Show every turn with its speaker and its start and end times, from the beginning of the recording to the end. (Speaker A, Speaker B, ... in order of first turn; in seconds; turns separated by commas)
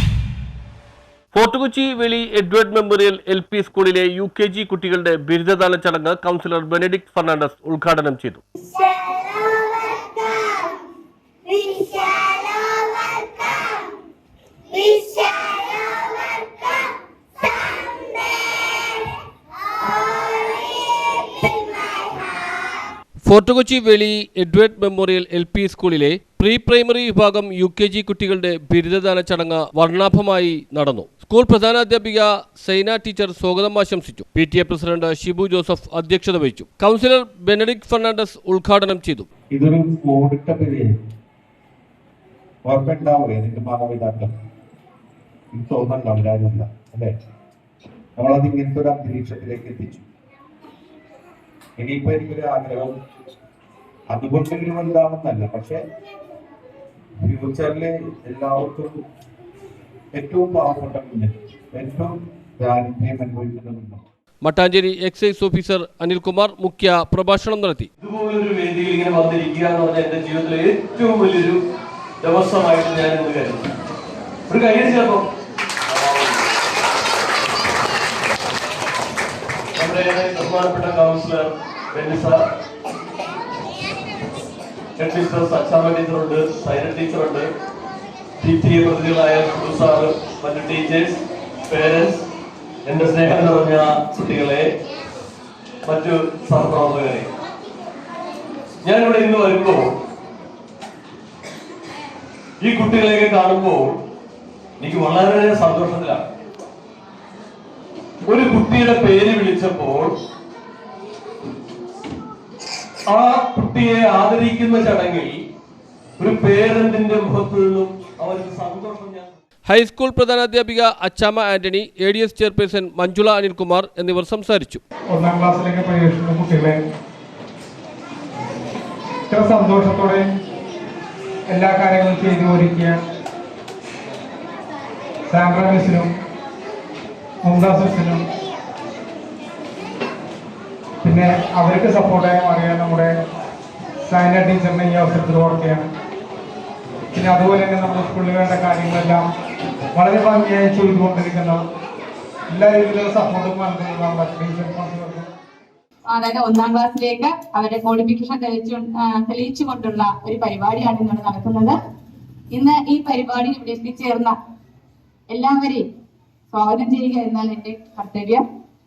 Speaker A: 1.3-8.4, Speaker A: 23.2-39.3, Speaker B: 39.5-40.9, Speaker B: 42.7-44.3, Speaker B: 45.5-47.1, Speaker B: 48.2-50.0, Speaker B: 51.8-53.0, Speaker B: 54.1-55.8, Speaker B: 57.2-59.0, Speaker B: 60.1-64.0, Speaker A: 64.4-67.9, Speaker C: 68.0-71.6, Speaker C: 72.2-73.7, Speaker C: 74.5-75.3, Speaker C: 75.9-76.5, Speaker C: 79.8-82.4, Speaker C: 85.0-87.5, Speaker C: 88.4-92.3, Speaker C: 92.8-94.7, Speaker C: 95.8-97.3, Speaker C: 98.8-99.8, Speaker C: 102.6-104.0, Speaker C: 104.8-106.2, Speaker C: 108.3-110.1, Speaker C: 113.1-115.4, Speaker C: 116.2-119.3, Speaker A: 119.7-124.8, Speaker D: 125.1-126.8, Speaker D: 129.3-130.3, Speaker D: 131.5-133.0, Speaker D: 135.3-136.1, Speaker D: 137.4-138.2, Speaker D: 141.0-143.1, Speaker D: 144.1-145.9, Speaker D: 147.1-149.2, Speaker D: 149.9-151.6, Speaker D: 152.5-155.3, Speaker E: 156.1-161.8, Speaker E: 162.5-164.3, Speaker E: 165.3-165.8, Speaker E: 166.5-168.4